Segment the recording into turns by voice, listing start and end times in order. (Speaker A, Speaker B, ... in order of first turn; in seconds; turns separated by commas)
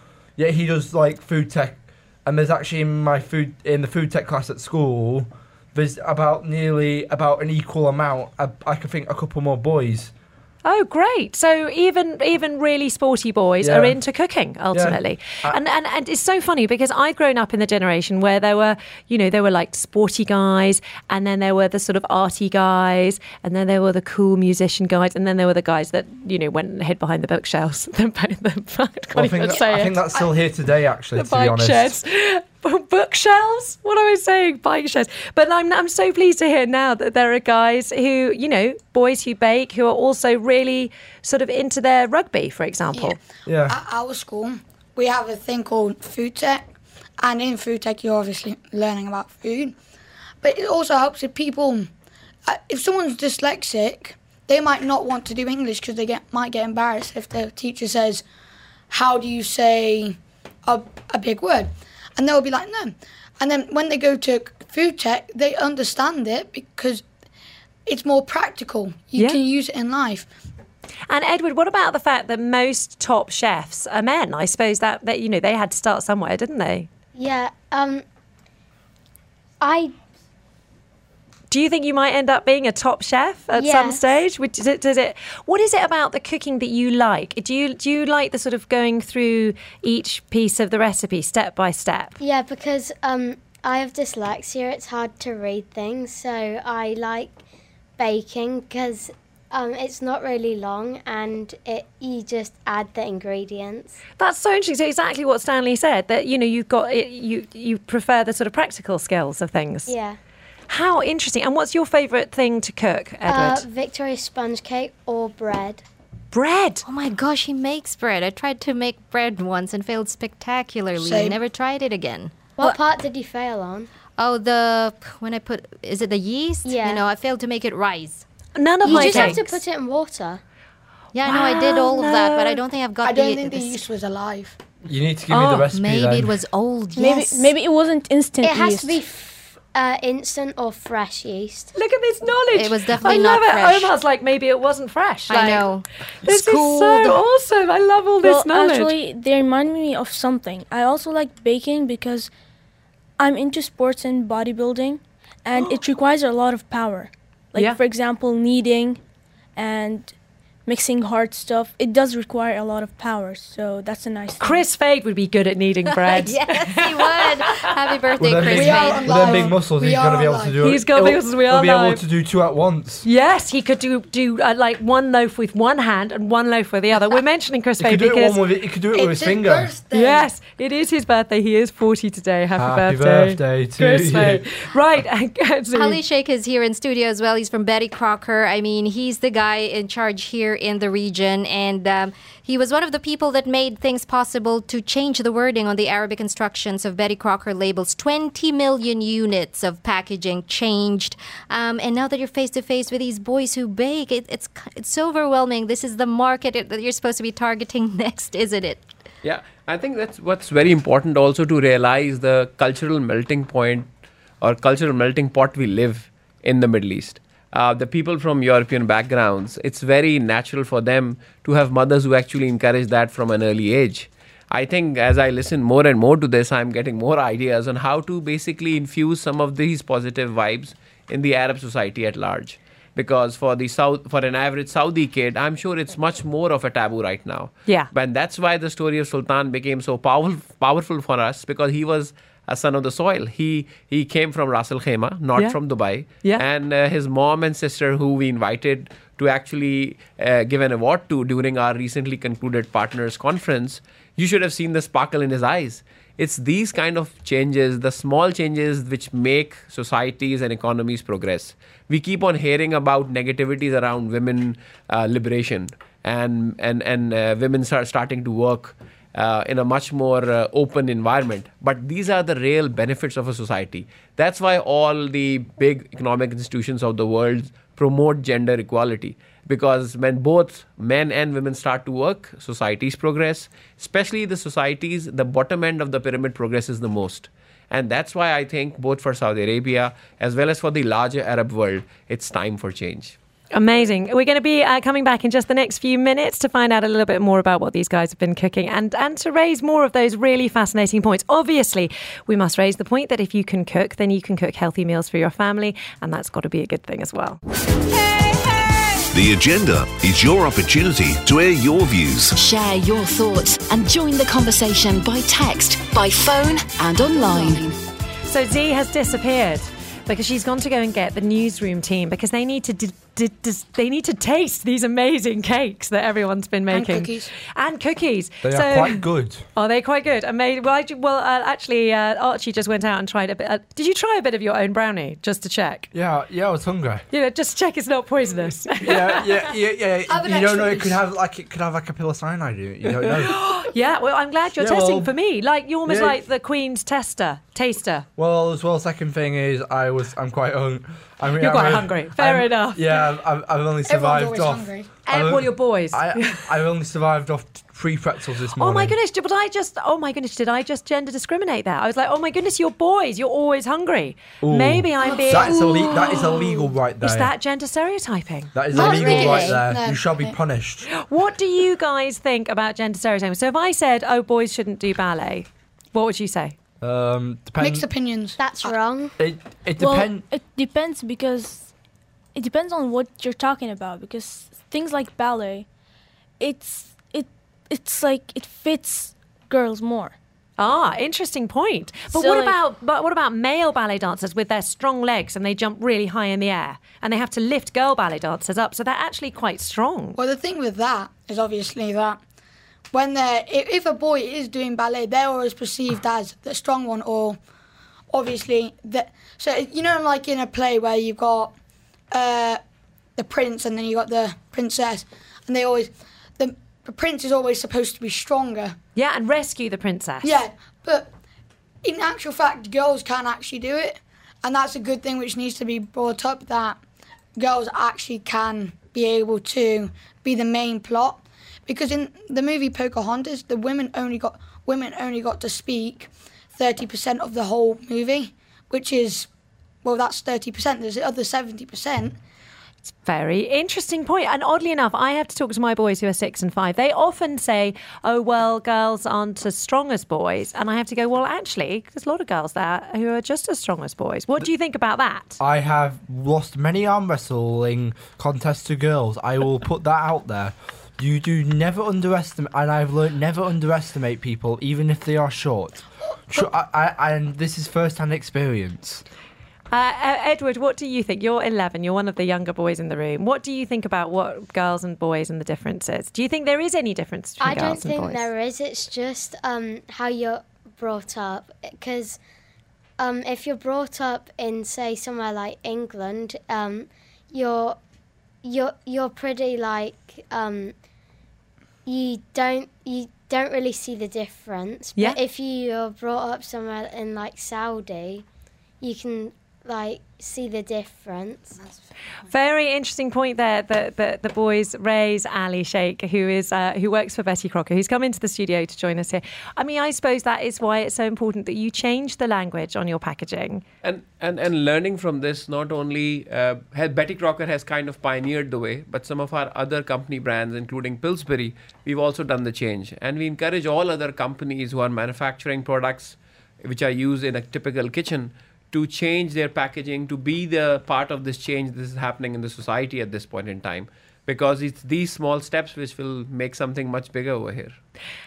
Speaker A: 0.4-10.1, Speaker B: 10.7-30.1, Speaker A: 13.6-14.0, Speaker A: 14.7-15.6, Speaker A: 29.1-32.0, Speaker B: 31.1-43.2, Speaker A: 43.5-43.8, Speaker C: 43.7-46.6, Speaker C: 47.2-49.8, Speaker C: 50.4-51.9, Speaker C: 52.5-58.2, Speaker C: 58.9-67.0, Speaker C: 67.9-70.3, Speaker B: 71.1-76.9, Speaker D: 77.2-78.0, Speaker D: 79.6-79.9, Speaker B: 81.5-92.1, Speaker D: 83.5-84.0, Speaker D: 92.2-97.4, Speaker D: 98.0-104.0, Speaker B: 104.2-109.9, Speaker D: 109.9-110.2, Speaker B: 110.7-113.7, Speaker D: 113.3-115.8, Speaker B: 116.3-116.8, Speaker E: 116.9-122.3, Speaker C: 121.0-121.4, Speaker D: 122.6-123.9, Speaker E: 124.2-128.3, Speaker D: 126.6-127.0, Speaker B: 128.6-129.5, Speaker D: 128.8-130.4, Speaker E: 128.9-129.6, Speaker E: 131.1-133.8, Speaker B: 131.2-132.6, Speaker C: 133.0-134.6, Speaker A: 134.9-136.4, Speaker B: 135.3-135.7, Speaker E: 135.7-137.5, Speaker F: 136.9-139.0, Speaker D: 138.4-141.7, Speaker B: 141.8-145.7, Speaker E: 142.5-143.9, Speaker E: 145.3-147.2, Speaker B: 146.2-148.9, Speaker F: 148.2-152.3, Speaker F: 153.2-159.0, Speaker F: 159.6-160.2, Speaker F: 160.7-164.6, Speaker B: 164.4-167.7, Speaker E: 166.0-169.5, Speaker A: 168.2-173.1, Speaker C: 168.4-170.6, Speaker B: 170.6-172.0, Speaker B: 173.0-178.4, Speaker A: 177.8-179.7, Speaker C: 178.9-180.3, Speaker B: 179.9-186.0, Speaker A: 182.6-184.4, Speaker E: 185.7-208.8, Speaker G: 209.2-213.9, Speaker G: 214.4-293.2, Speaker B: 293.5-307.4, Speaker H: 309.1-312.4, Speaker I: 312.4-317.8, Speaker B: 318.3-335.9, Speaker C: 326.7-327.3, Speaker A: 328.4-329.4, Speaker A: 335.9-337.1, Speaker B: 337.1-339.3, Speaker A: 338.8-343.4, Speaker C: 340.1-341.0, Speaker B: 343.2-348.1, Speaker A: 344.6-345.1, Speaker A: 345.9-346.2, Speaker A: 348.2-358.9, Speaker B: 351.4-353.0, Speaker C: 353.9-354.9, Speaker B: 355.1-356.4, Speaker B: 358.6-365.7, Speaker A: 364.4-367.3, Speaker C: 365.0-366.2, Speaker B: 367.0-368.5, Speaker A: 368.6-370.9, Speaker D: 368.7-369.6, Speaker C: 368.7-370.4, Speaker B: 370.9-376.6, Speaker A: 376.8-377.9, Speaker C: 377.6-378.8, Speaker D: 378.4-379.2, Speaker A: 379.2-380.2, Speaker F: 379.8-381.7, Speaker F: 382.3-385.7, Speaker F: 386.4-390.2, Speaker B: 390.6-400.2, Speaker F: 392.1-392.6, Speaker C: 400.2-402.2, Speaker C: 402.9-407.4, Speaker C: 408.1-411.5, Speaker C: 412.1-412.6, Speaker C: 413.2-418.8, Speaker B: 418.9-420.4, Speaker C: 420.2-421.1, Speaker C: 421.8-426.8, Speaker C: 427.4-439.3, Speaker C: 439.8-442.2, Speaker B: 443.0-455.4, Speaker A: 455.4-469.0, Speaker B: 469.7-478.3, Speaker D: 477.4-482.2, Speaker D: 483.0-487.8, Speaker D: 488.4-490.7, Speaker D: 491.9-498.2, Speaker D: 498.8-501.6, Speaker B: 502.3-513.6, Speaker G: 513.8-537.8